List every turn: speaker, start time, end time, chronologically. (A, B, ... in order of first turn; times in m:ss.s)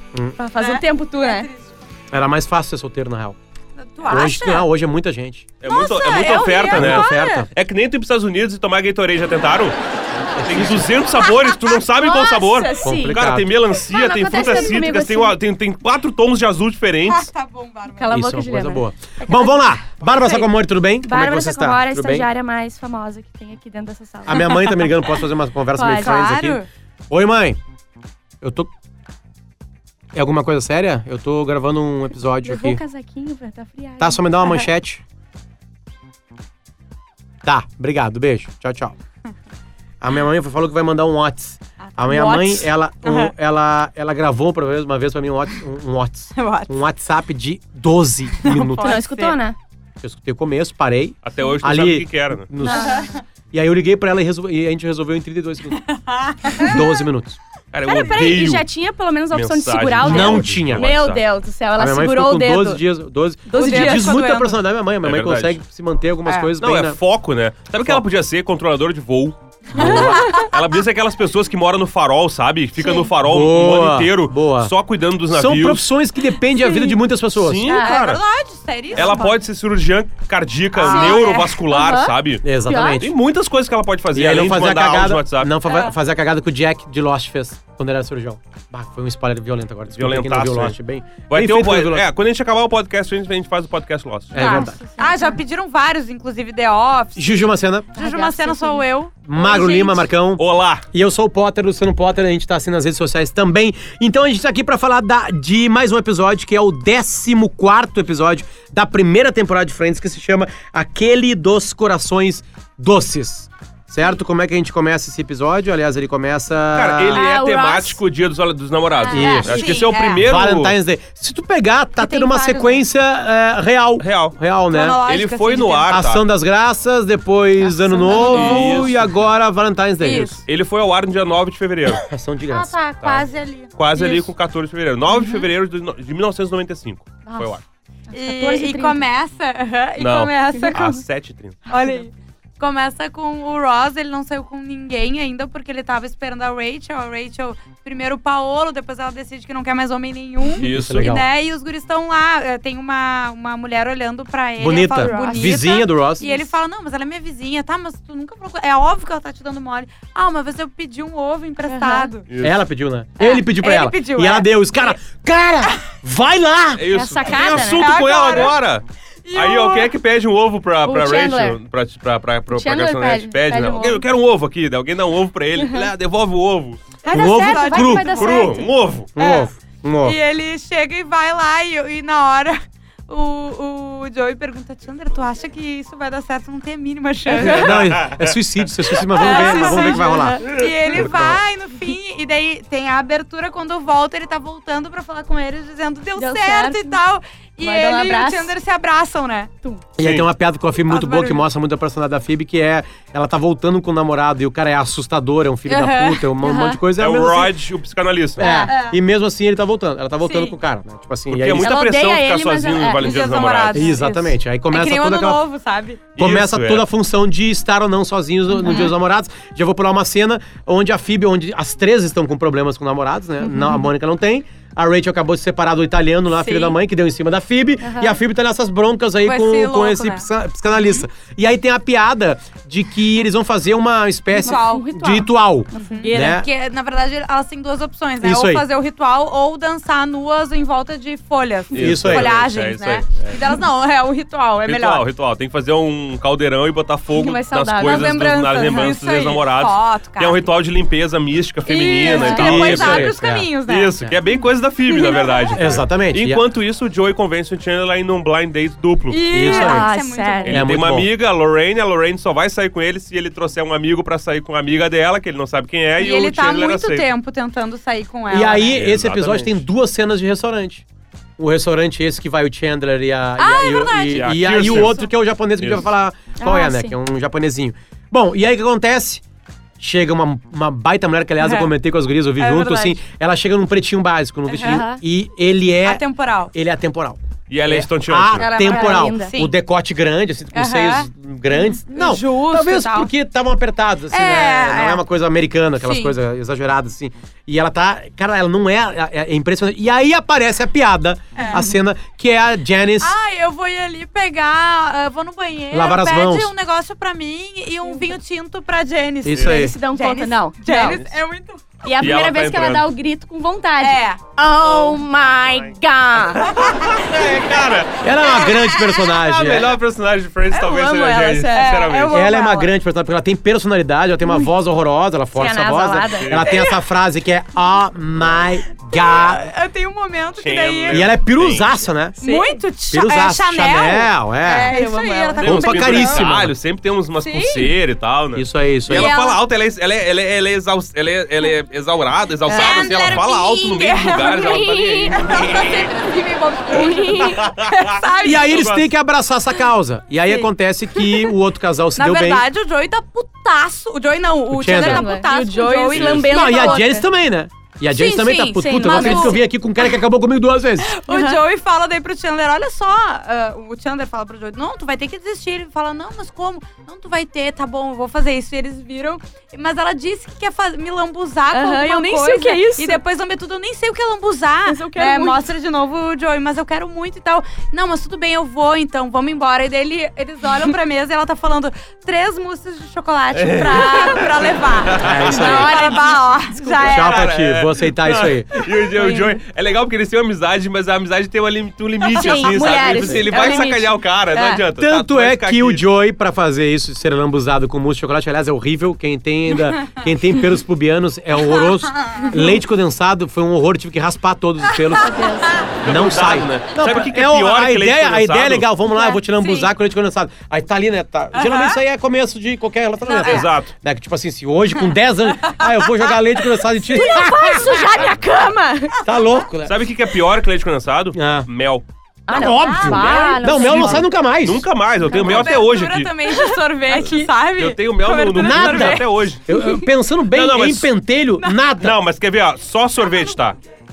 0:00.1-0:00.4 A
0:00.4-0:01.5 B
0:00.6-0:01.7 C
0:02.1-0:03.4 A
0:03.8-0:04.7 C
0:04.1-0:05.5 A
0:05.6-0:09.8 D
0:05.6-0:07.4 B
0:06.1-0:06.7 C
0:06.7-0:07.5 A
0:10.4-0:10.9 A
0:10.4-0:17.3 D
0:11.9-0:13.2 B
0:12.8-0:13.5 A
0:13.8-0:15.3 B
0:17.1-0:18.2 C
0:18.0-0:19.6 B
0:18.1-0:22.3 A
0:20.1-0:20.4 C
0:21.0-0:24.8 B
0:24.2-0:27.6 A
0:25.7-0:26.4 B
0:26.0-0:26.6 C
0:28.4-0:28.7 A
0:30.1-0:32.8 A
0:32.4-0:34.6 B
0:34.0-0:35.0 A
0:37.4-0:39.0 A
0:40.0-0:49.0 A
0:41.8-0:43.3 C
0:46.3-0:46.7 C
0:48.4-0:49.4 C
0:48.6-0:49.6 B
0:50.0-0:55.8 A
0:51.2-0:52.5 D
0:52.6-0:53.1 B
0:52.6-0:53.2 C
0:55.8-0:56.8 C
0:56.5-0:57.4 A
0:57.7-0:58.6 D
0:57.8-1:02.8 B
0:59.3-1:01.2 D
1:00.0-1:01.0 A
1:01.8-1:07.0 A
1:03.5-1:04.2 B
1:03.5-1:04.6 C
1:05.0-1:05.6 D
1:06.6-1:15.8 D
1:09.7-1:10.4 A
1:09.7-1:10.5 C
1:12.8-1:13.0 B
1:13.2-1:14.7 A
1:15.3-1:17.6 A
1:16.6-1:17.0 B
1:17.4-1:18.2 D
1:17.6-1:17.9 B
1:17.7-1:19.4 C
1:18.9-1:22.4 D
1:20.8-1:21.5 C
1:20.8-1:22.1 B
1:22.4-1:23.1 A
1:22.6-1:23.0 B
1:23.0-1:25.5 D
1:24.1-1:32.0 A
1:25.6-1:25.9 C
1:30.0-1:30.7 D
1:31.3-1:34.5 D
1:34.3-1:34.8 A
1:34.3-1:35.4 B
1:34.4-1:40.1 C
1:37.2-1:37.9 A
1:38.0-1:38.8 B
1:39.2-1:57.2 A
1:40.4-1:40.8 D
1:56.7-2:00.7 D
1:57.1-1:58.0 B
1:59.0-2:00.2 C
1:59.1-2:05.0 A
2:02.0-2:02.8 B
2:04.0-2:04.4 D
2:04.7-2:06.0 C
2:05.0-2:06.2 D
2:05.9-2:10.4 A
2:07.9-2:08.9 C
2:07.9-2:08.8 B
2:08.1-2:09.1 D
2:10.0-2:10.4 C
2:10.4-2:12.0 D
2:12.0-2:12.8 A
2:12.5-2:14.3 C
2:13.0-2:17.6 D
2:18.1-2:19.0 B
2:18.1-2:21.0 C
2:20.0-2:21.7 D
2:21.7-2:42.2 C
2:30.6-2:31.1 D
2:30.6-2:31.2 A
2:34.6-2:36.2 A
2:34.9-2:35.7 B
2:41.7-2:42.1 B
2:42.3-2:42.6 D
2:42.4-2:46.8 A
2:43.2-2:45.0 C
2:46.8-2:48.8 D
2:46.9-2:48.0 B
2:47.3-2:48.6 C
2:49.2-2:49.9 C
2:49.3-2:56.9 D
2:50.8-2:51.6 B
2:52.5-2:54.0 B
2:55.6-2:55.9 B
2:57.0-2:59.5 C
2:57.1-2:58.7 B
2:57.1-2:58.1 A
2:58.1-2:59.1 D
2:59.1-3:00.2 A
3:00.0-3:07.8 C
3:07.4-3:11.4 A
3:07.6-3:08.2 D
3:09.1-3:19.5 C
3:09.1-3:10.6 B
3:16.2-3:17.0 B
3:17.6-3:18.5 B
3:20.0-3:27.5 A
3:20.0-3:20.3 D
3:20.9-3:21.4 C
3:25.7-3:26.2 C
3:26.4-3:26.8 B
3:27.0-3:28.6 D
3:28.4-3:31.7 A
3:28.4-3:28.7 B
3:28.4-3:29.0 C
3:30.2-3:30.5 C
3:31.3-3:33.9 D
3:31.5-3:33.1 B
3:33.0-3:36.0 C
3:33.7-3:35.4 A
3:36.2-3:56.5 A
3:36.2-3:36.8 D
3:38.6-3:38.9 B
3:43.5-3:43.8 B
3:46.3-3:46.7 C
3:47.8-3:48.2 B
3:49.2-3:50.3 C
3:54.3-3:56.4 B
3:54.4-3:55.2 C
3:55.7-4:05.0 C
3:58.2-3:58.6 A
4:01.7-4:03.6 D
4:01.7-4:02.3 A
4:04.6-4:13.1 D
4:07.1-4:08.2 B
4:07.8-4:10.5 C
4:11.6-4:14.0 C
4:12.1-4:12.9 B
4:12.1-4:13.5 A
4:13.7-4:19.2 D
4:14.9-4:15.6 C
4:15.5-4:16.4 A
4:19.1-4:20.6 C
4:19.3-4:19.9 A
4:19.3-4:20.6 B
4:20.4-4:27.1 D
4:20.5-4:21.1 A
4:26.0-4:28.8 C
4:28.3-4:30.8 A
4:28.7-4:29.6 D
4:31.4-4:39.2 A
4:33.4-4:35.1 C
4:34.1-4:35.0 D
4:35.6-4:35.8 D
4:36.4-4:36.9 B
4:39.8-4:46.0 A
4:41.4-4:41.7 B
4:42.4-4:42.9 B
4:44.5-4:44.8 C
4:44.5-4:45.0 B
4:45.8-4:46.5 C
4:46.5-5:03.2 A
4:47.5-4:48.8 D
4:48.4-4:49.3 B
4:48.4-4:49.5 C
4:50.5-4:53.1 C
4:54.1-4:55.0 C
4:55.8-4:56.1 C
5:01.4-5:01.6 C
5:03.0-5:11.6 C
5:05.7-5:06.5 A
5:07.8-5:08.1 B
5:09.2-5:09.7 A
5:09.4-5:11.0 B
5:10.7-5:11.1 D
5:11.8-5:16.6 B
5:12.0-5:12.9 D
5:13.8-5:14.2 C
5:14.6-5:15.8 D
5:16.4-5:18.1 D
5:18.0-5:19.8 A
5:18.2-5:18.9 C
5:19.0-5:22.2 D
5:20.5-5:21.8 B
5:21.5-5:22.7 C
5:22.1-5:29.5 A
5:25.3-5:26.5 B
5:26.2-5:26.5 D
5:26.4-5:26.8 C
5:28.9-5:31.1 C
5:30.4-5:31.8 D
5:30.9-5:32.2 A
5:32.2-5:36.3 C
5:32.2-5:32.6 B
5:32.9-5:34.8 A
5:34.6-5:35.7 B
5:35.4-5:45.9 D
5:35.4-5:36.5 A
5:37.2-5:37.7 C
5:38.3-5:39.1 A
5:38.9-5:39.4 C
5:42.5-5:43.0 B
5:42.5-5:48.7 C
5:44.4-5:45.2 B
5:46.7-5:47.5 B
5:47.2-5:48.9 D
5:48.2-5:52.4 A
5:50.2-5:51.2 C
5:52.0-5:56.8 C
5:54.5-5:55.1 A
5:54.7-5:57.0 B
5:55.9-5:56.3 D
5:56.2-6:01.0 A
5:57.9-5:59.4 C
5:58.5-5:59.4 B
6:00.8-6:27.3 C
6:01.0-6:01.4 B
6:11.5-6:13.0 B
6:14.6-6:15.4 B
6:23.3-6:25.6 D
6:23.8-6:24.2 B
6:25.0-6:25.8 A
6:25.2-6:26.9 B
6:26.7-6:35.8 D
6:26.8-6:28.7 A
6:28.9-6:29.4 B
6:32.1-6:34.6 B
6:32.1-6:32.8 C
6:32.6-6:33.5 A
6:34.8-6:45.2 A
6:41.5-6:42.6 C
6:45.0-6:45.7 B
6:45.8-6:48.7 D
6:45.8-6:58.0 A
6:49.0-6:49.7 C
6:51.3-6:51.8 C
6:53.0-6:53.5 C
6:53.2-6:53.7 D
6:55.4-6:56.1 C
6:56.9-6:59.0 B
6:59.0-6:59.8 A
6:59.6-7:01.8 D
7:01.1-7:01.5 A
7:02.3-7:04.1 B
7:02.3-7:04.6 A
7:02.3-7:03.6 C
7:03.5-7:06.1 D
7:05.1-7:09.0 C
7:05.1-7:05.5 B
7:06.3-7:07.2 B
7:07.6-7:09.5 D
7:08.3-7:12.0 A
7:10.3-7:10.9 D
7:11.8-7:13.6 D